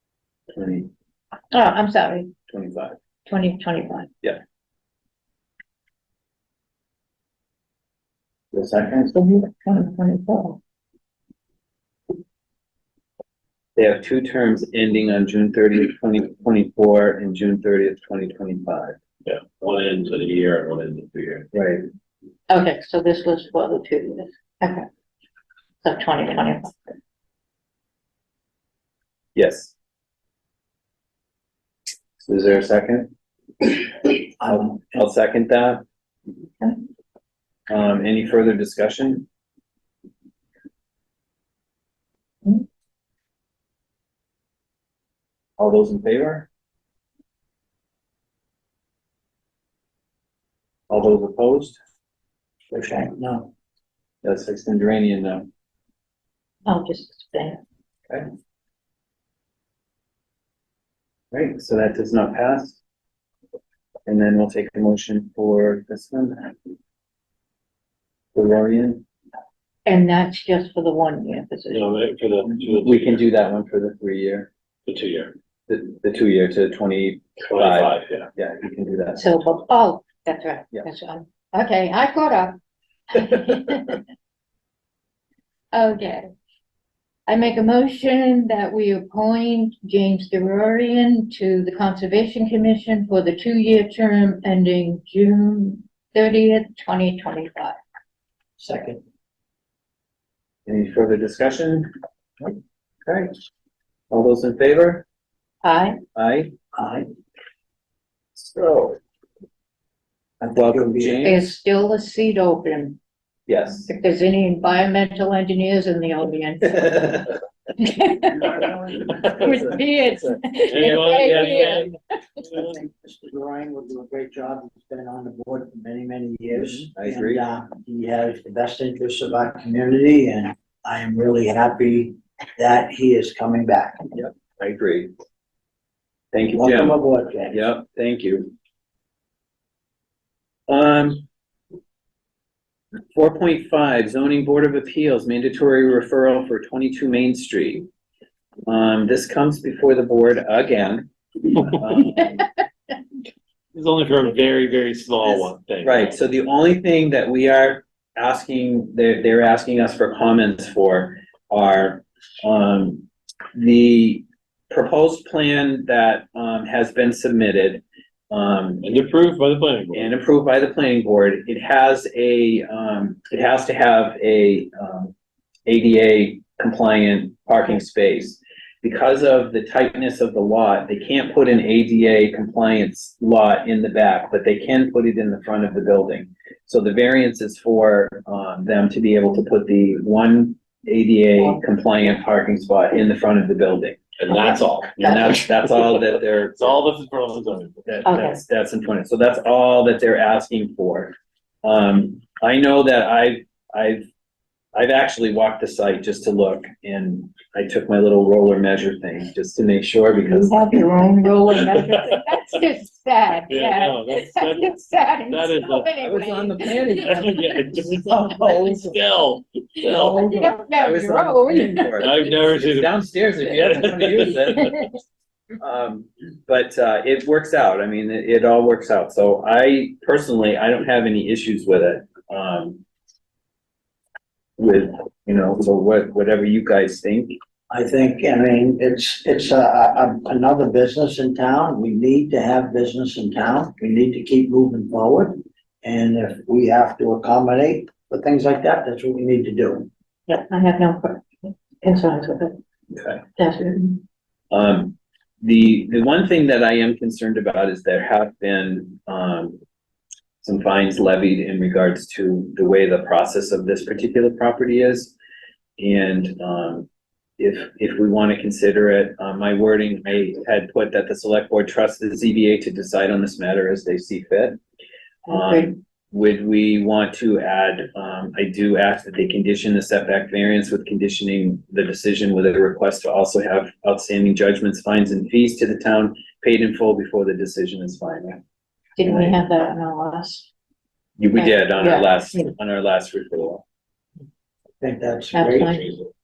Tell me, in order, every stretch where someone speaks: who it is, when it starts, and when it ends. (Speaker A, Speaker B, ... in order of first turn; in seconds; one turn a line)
Speaker A: 0.5-0.9
Speaker B: 1.5-2.3
Speaker A: 2.5-3.0
Speaker B: 3.3-4.1
Speaker A: 8.5-9.1
Speaker B: 9.1-10.6
Speaker A: 13.8-19.0
Speaker C: 19.3-21.5
Speaker A: 21.5-21.9
Speaker B: 22.5-24.9
Speaker B: 25.8-26.8
Speaker A: 29.4-29.8
Speaker A: 32.2-33.1
Speaker D: 34.4-35.0
Speaker A: 34.5-35.9
Speaker A: 37.7-39.3
Speaker A: 45.6-46.5
Speaker A: 50.9-51.8
Speaker D: 52.7-53.5
Speaker A: 54.2-55.5
Speaker B: 56.7-57.6
Speaker A: 61.3-62.8
Speaker A: 64.1-66.5
Speaker A: 68.3-69.0
Speaker B: 69.8-71.9
Speaker C: 71.7-73.3
Speaker A: 72.6-74.5
Speaker C: 74.9-75.3
Speaker A: 75.7-79.4
Speaker C: 77.4-78.3
Speaker B: 79.2-82.6
Speaker B: 83.1-84.0
Speaker B: 85.7-86.3
Speaker B: 87.3-97.8
Speaker D: 98.6-99.0
Speaker A: 100.7-101.9
Speaker A: 103.1-103.3
Speaker A: 104.1-105.0
Speaker B: 105.6-106.0
Speaker A: 106.2-106.5
Speaker D: 106.7-107.1
Speaker A: 108.3-109.0
Speaker A: 110.4-111.4
Speaker D: 110.5-111.4
Speaker B: 111.2-113.0
Speaker A: 113.5-113.9
Speaker B: 113.9-118.6
Speaker D: 118.4-119.8
Speaker B: 119.2-121.9
Speaker C: 120.6-122.0
Speaker D: 122.5-134.1
Speaker A: 126.5-127.4
Speaker A: 134.2-135.1
Speaker A: 136.3-138.5
Speaker D: 136.6-137.6
Speaker A: 140.7-141.3
Speaker A: 143.1-147.9
Speaker A: 148.7-151.1
Speaker A: 151.6-152.5
Speaker C: 153.7-156.2
Speaker A: 155.2-168.9
Speaker C: 168.8-170.2
Speaker A: 169.9-175.1
Speaker A: 175.7-194.1
Speaker C: 194.2-198.4
Speaker B: 194.3-195.4
Speaker A: 195.0-196.8
Speaker A: 197.9-204.1
Speaker B: 198.1-198.4
Speaker A: 204.8-210.8
Speaker B: 210.3-217.7
Speaker C: 211.6-212.2
Speaker C: 213.5-215.9
Speaker A: 216.0-217.2
Speaker C: 217.0-220.6
Speaker A: 217.8-218.9
Speaker B: 219.9-222.1
Speaker A: 220.6-224.7
Speaker C: 221.9-224.9
Speaker B: 224.6-224.9
Speaker A: 225.6-232.8
Speaker A: 234.6-237.4
Speaker D: 237.7-249.9
Speaker B: 250.3-252.6
Speaker A: 252.9-253.2
Speaker B: 253.4-254.0
Speaker A: 254.5-259.6
Speaker A: 260.4-265.1
Speaker A: 265.8-266.9
Speaker A: 267.4-274.6
Speaker B: 275.3-275.7
Speaker A: 275.3-288.4
Speaker B: 289.0-290.5
Speaker A: 289.0-289.4
Speaker A: 291.2-293.6
Speaker B: 291.4-292.5
Speaker D: 294.8-295.8
Speaker B: 295.3-295.9